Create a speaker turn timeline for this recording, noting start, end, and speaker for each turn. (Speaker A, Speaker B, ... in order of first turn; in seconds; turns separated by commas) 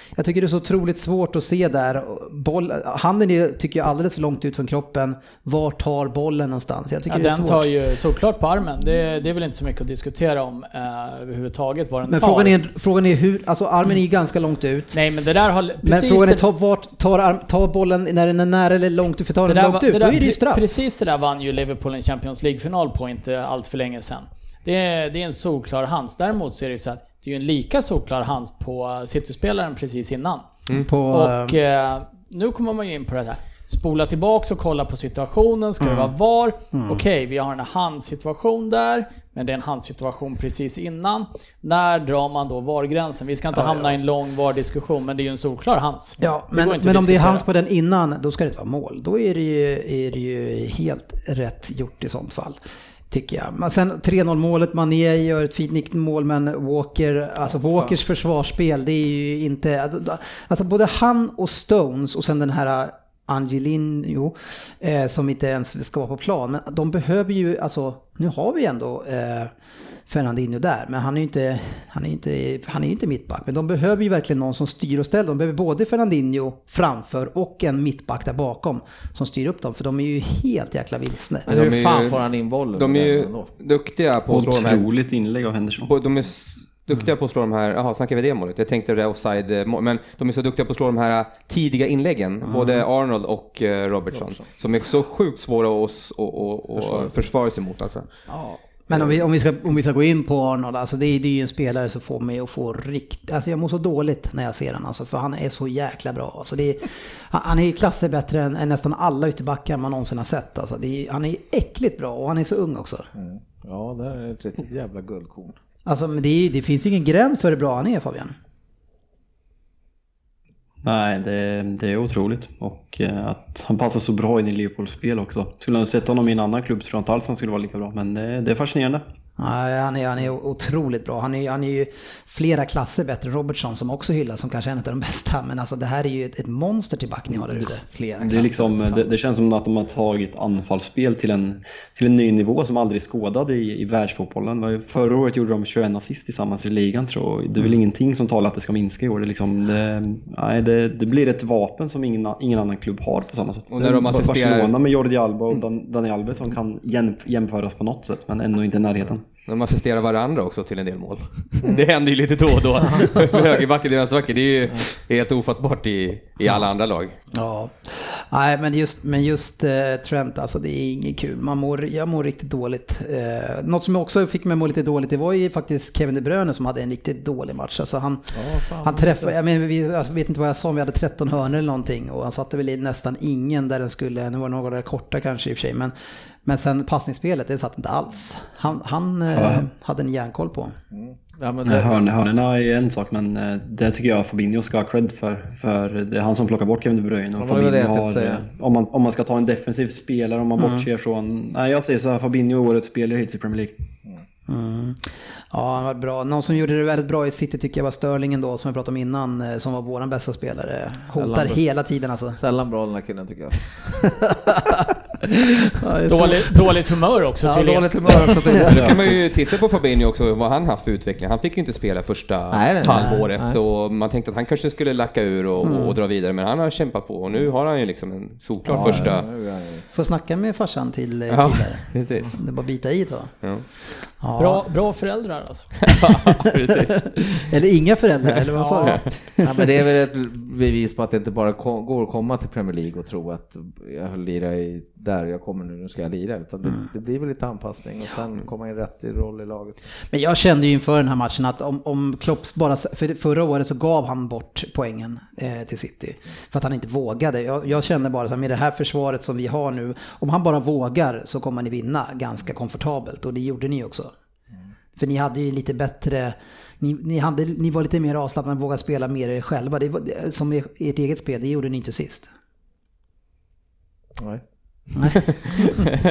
Speaker A: 0.1-7.7, Speaker B: 7.1-12.6, Speaker A: 12.1-15.0, Speaker B: 14.9-16.4, Speaker A: 15.8-20.6, Speaker B: 19.5-30.5, Speaker A: 30.7-31.6, Speaker B: 31.1-47.4, Speaker A: 35.8-36.1, Speaker A: 36.7-37.0, Speaker A: 43.5-43.9, Speaker A: 46.2-52.6, Speaker A: 53.1-69.5, Speaker A: 70.1-81.4, Speaker C: 81.5-82.2, Speaker D: 81.5-83.5, Speaker C: 82.7-84.8, Speaker E: 84.3-85.9, Speaker C: 85.9-98.1, Speaker A: 92.5-92.8, Speaker D: 94.1-94.4, Speaker D: 96.8-97.2, Speaker A: 98.3-113.1, Speaker D: 113.1-115.6, Speaker A: 115.8-118.3, Speaker E: 120.8-129.0, Speaker A: 129.4-137.8, Speaker D: 137.3-139.1, Speaker E: 138.2-159.2, Speaker C: 153.7-154.7, Speaker C: 159.4-167.2, Speaker A: 167.3-185.9, Speaker D: 178.3-179.3, Speaker A: 186.4-190.8, Speaker E: 189.3-189.6, Speaker D: 190.9-192.0, Speaker E: 191.7-203.7, Speaker D: 197.4-198.4, Speaker A: 200.6-200.8, Speaker A: 204.5-212.4, Speaker D: 211.1-211.6, Speaker D: 212.3-213.8, Speaker A: 213.9-214.9, Speaker A: 215.8-216.5, Speaker B: 216.1-218.5, Speaker D: 217.4-219.1, Speaker C: 218.7-229.3, Speaker E: 218.7-219.0, Speaker D: 222.5-223.6, Speaker A: 222.9-223.3, Speaker A: 225.6-226.0, Speaker D: 228.7-229.8, Speaker A: 229.9-233.3, Speaker C: 231.3-232.3, Speaker A: 234.2-234.6, Speaker B: 234.4-235.7, Speaker C: 235.8-237.5, Speaker A: 236.5-236.8, Speaker A: 237.4-239.7, Speaker B: 238.6-239.0, Speaker D: 239.4-249.8, Speaker A: 250.1-264.1, Speaker A: 264.9-272.3, Speaker D: 274.2-275.0, Speaker A: 274.9-275.9